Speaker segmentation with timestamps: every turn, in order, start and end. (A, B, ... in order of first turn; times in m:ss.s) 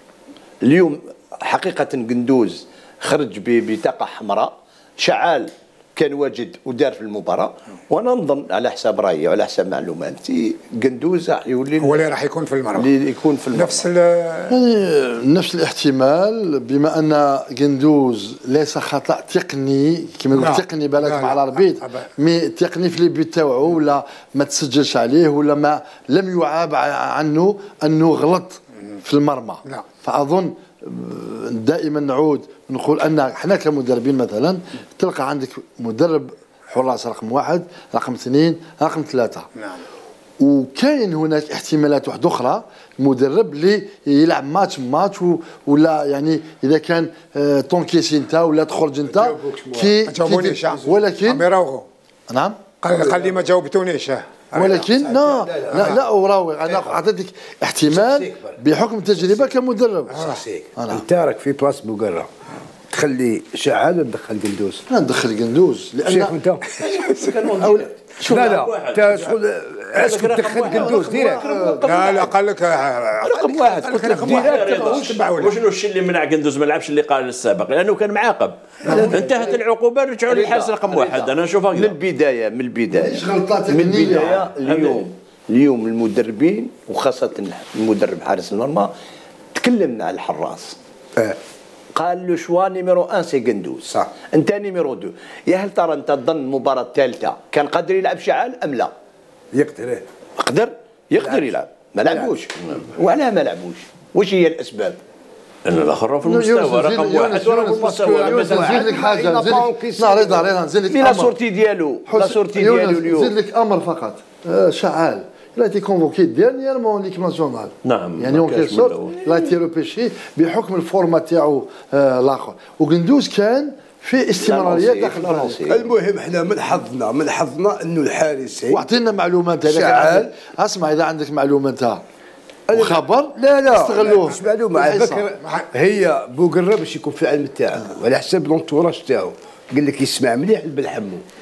0:00.6-0:12.0 A
0:11.8-0:12.9 B
0:12.8-0:13.8 A
0:13.5-0:14.6 B
0:14.5-0:39.5 C
0:20.4-0:22.1 B
0:39.6-0:39.8 B
0:40.4-0:51.4 C
0:49.1-0:50.0 D
0:50.1-0:51.9 B
0:52.3-0:52.6 C
0:52.8-0:56.0 B
0:52.9-0:53.4 D
0:54.5-1:01.0 C
0:55.1-0:56.0 D
0:56.7-0:57.0 D
0:57.9-0:58.6 D
0:59.1-0:59.5 D
1:00.2-1:02.3 D
1:02.9-1:04.8 D
1:04.9-1:06.3 C
1:06.0-1:06.6 D
1:06.7-1:08.6 A
1:07.0-1:07.3 B
1:07.6-1:11.5 D
1:08.3-1:09.3 E
1:10.0-1:12.3 A
1:10.7-1:12.2 C
1:11.8-1:15.5 B
1:13.2-1:15.0 A
1:14.1-1:14.9 D
1:14.3-1:21.9 E
1:18.9-1:19.6 C
1:18.9-1:19.2 A
1:20.3-1:28.9 A
1:22.9-1:24.5 C
1:24.6-1:25.0 E
1:29.6-1:30.8 A
1:32.0-1:38.9 A
1:33.9-1:34.1 D
1:39.5-1:40.0 D
1:40.4-1:45.0 A
1:42.0-1:42.4 D
1:45.6-1:47.4 E
1:46.2-1:51.4 C
1:47.3-1:48.8 A
1:47.7-1:50.5 D
1:50.9-1:53.3 A
1:52.1-2:05.6 C
1:57.8-1:59.2 E
2:04.4-2:05.8 A
2:05.6-2:08.8 D
2:08.7-2:12.0 C
2:09.6-2:10.3 D
2:12.7-2:21.2 D
2:12.7-2:15.3 C